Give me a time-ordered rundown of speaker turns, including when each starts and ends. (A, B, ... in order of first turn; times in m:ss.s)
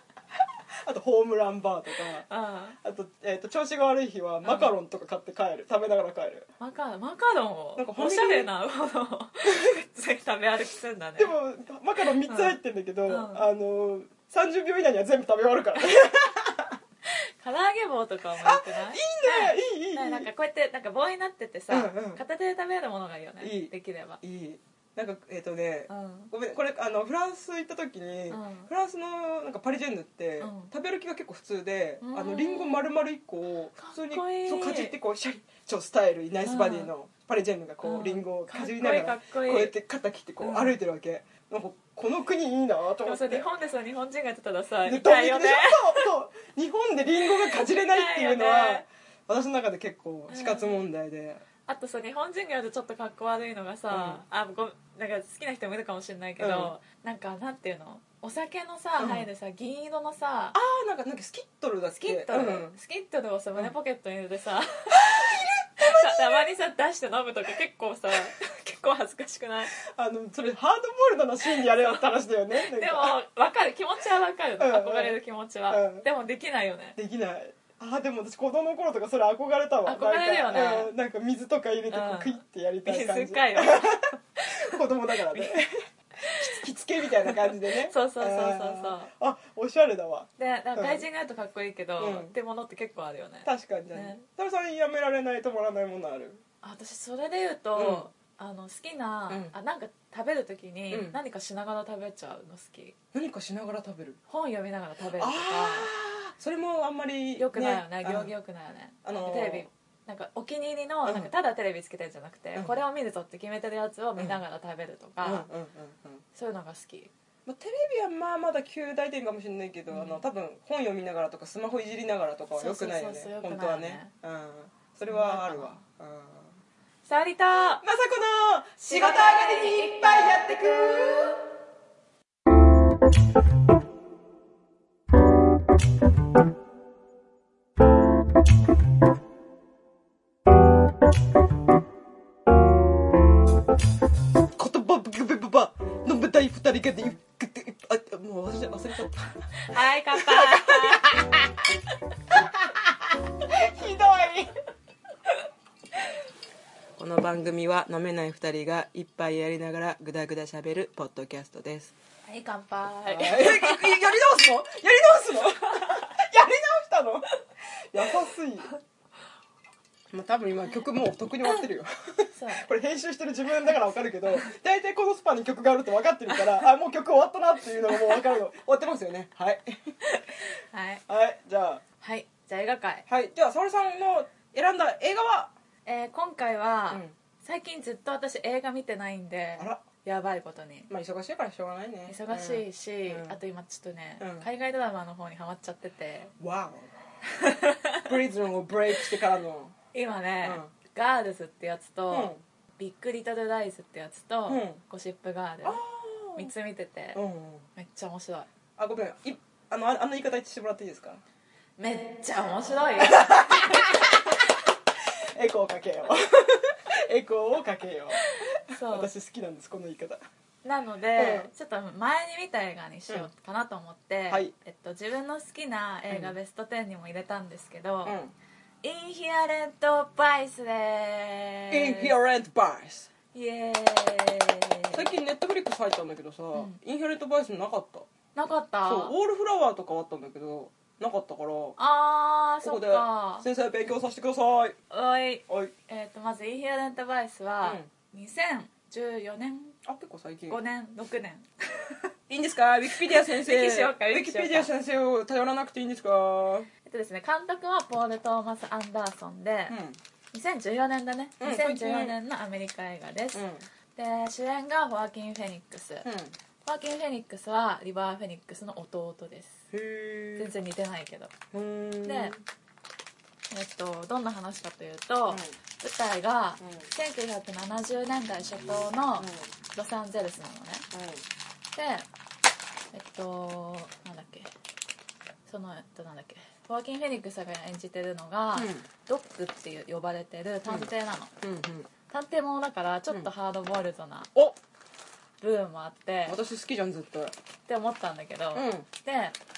0:00.8-0:02.2 A
0:02.0-0:02.8 B
0:02.8-0:06.5 A
0:04.4-0:04.7 B
0:06.6-0:11.3 B
0:07.8-0:08.5 A
0:09.4-0:09.7 A
0:11.2-0:16.8 A
0:12.3-0:13.5 B
0:17.1-0:24.2 B
0:18.4-0:20.3 A
0:21.7-0:22.2 A
0:23.4-0:43.5 A
0:25.9-0:26.3 B
0:28.3-0:28.7 B
0:30.4-0:30.7 B
0:32.0-0:32.8 B
0:33.8-0:34.9 B
0:36.4-0:36.9 B
0:37.8-0:39.7 B
0:40.4-0:40.8 B
0:43.0-0:46.1 B
0:44.8-0:51.4 A
0:47.2-0:48.8 B
0:50.3-0:50.8 B
0:51.7-1:00.6 B
0:53.9-0:54.2 A
0:56.4-0:56.7 A
0:59.0-0:59.3 A
1:00.5-1:02.8 A
1:02.0-1:09.7 B
1:04.9-1:06.4 A
1:09.8-1:13.2 A
1:11.4-1:12.0 B
1:12.6-1:17.0 B
1:14.6-1:15.2 A
1:15.7-1:16.0 A
1:17.0-1:31.0 A
1:19.8-1:20.9 B
1:21.9-1:24.8 B
1:25.3-1:25.6 B
1:26.2-1:26.6 B
1:27.2-1:29.1 B
1:30.4-1:34.2 B
1:32.0-1:32.3 A
1:33.4-1:36.4 A
1:36.6-1:43.0 B
1:37.8-1:38.1 A
1:39.3-1:39.5 A
1:40.9-1:41.2 A
1:43.1-1:44.2 A
1:44.3-1:45.9 B
1:45.2-1:48.3 A
1:47.4-1:55.5 B
1:49.0-1:49.7 A
1:52.5-1:52.8 A
1:55.2-1:56.2 A
1:56.3-1:57.1 B
1:57.4-2:06.5 A
1:59.9-2:00.2 B
2:02.5-2:04.1 B
2:05.1-2:05.8 B
2:07.0-2:07.8 B
2:07.8-2:11.4 A
2:08.8-2:11.2 B
2:24.6-2:29.5 A
2:29.6-2:31.0 B
2:30.1-2:31.4 A
2:32.3-2:32.8 A
2:33.4-2:34.5 A
2:37.0-2:41.9 A
2:42.2-2:44.0 B
2:43.0-2:47.3 A
2:45.7-2:46.0 B
2:47.9-2:48.7 A
2:50.1-3:00.0 A
2:52.3-2:52.6 B
2:57.9-2:58.3 B
3:00.0-3:01.0 B
3:01.1-3:01.8 A
3:02.0-3:03.0 B
3:03.1-3:05.5 A
3:05.8-3:10.9 B
3:09.6-3:09.8 A
3:10.9-3:13.4 A
3:12.1-3:16.3 B
3:14.2-3:14.4 A
3:16.4-3:16.9 A
3:17.3-3:18.1 B
3:18.0-3:19.7 A
3:19.9-3:25.8 B
3:20.4-3:20.7 A
3:22.1-3:22.4 A
3:24.5-3:24.8 A
3:25.6-3:26.5 A
3:26.4-3:27.2 B
3:27.1-3:27.6 A
3:27.8-3:28.5 B
3:28.8-3:31.2 A
3:31.8-3:34.1 B
3:33.0-3:34.4 A
3:35.4-3:40.2 A
3:38.7-3:39.1 B
3:40.6-3:48.2 B
3:41.2-3:41.5 A
3:46.1-3:46.3 A
3:48.0-3:48.3 A
3:48.8-3:52.1 B
3:51.7-3:53.1 A
3:53.3-3:55.1 B
3:54.9-3:58.1 A
3:58.3-3:59.1 B
3:58.8-4:01.8 A
4:01.8-4:03.4 B
4:02.6-4:04.8 A
4:04.9-4:09.8 B
4:07.6-4:07.9 A
4:09.8-4:10.6 A
4:10.5-4:12.1 B
4:12.3-4:16.7 A
4:12.9-4:14.7 B
4:16.8-4:19.8 B
4:19.7-4:20.0 A
4:20.3-4:23.4 B
4:21.4-4:22.2 A
4:23.3-4:23.6 A
4:23.9-4:26.1 B
4:26.0-4:26.3 A
4:26.6-4:29.6 B
4:29.7-4:30.5 A
4:30.4-4:31.3 B
4:31.5-4:32.4 A
4:32.0-4:32.3 B
4:33.5-4:40.8 B
4:35.3-4:35.5 A
4:36.6-4:36.9 A
4:39.2-4:39.5 A
4:40.9-4:41.2 A
4:41.7-4:42.0 B
4:42.9-4:44.5 B
4:45.4-4:51.3 B
4:48.5-4:48.8 A
4:50.6-4:51.9 A
4:52.1-4:54.3 B
4:55.4-4:56.4 B
4:56.2-4:57.4 A
4:57.7-4:59.4 B
4:58.5-4:58.8 A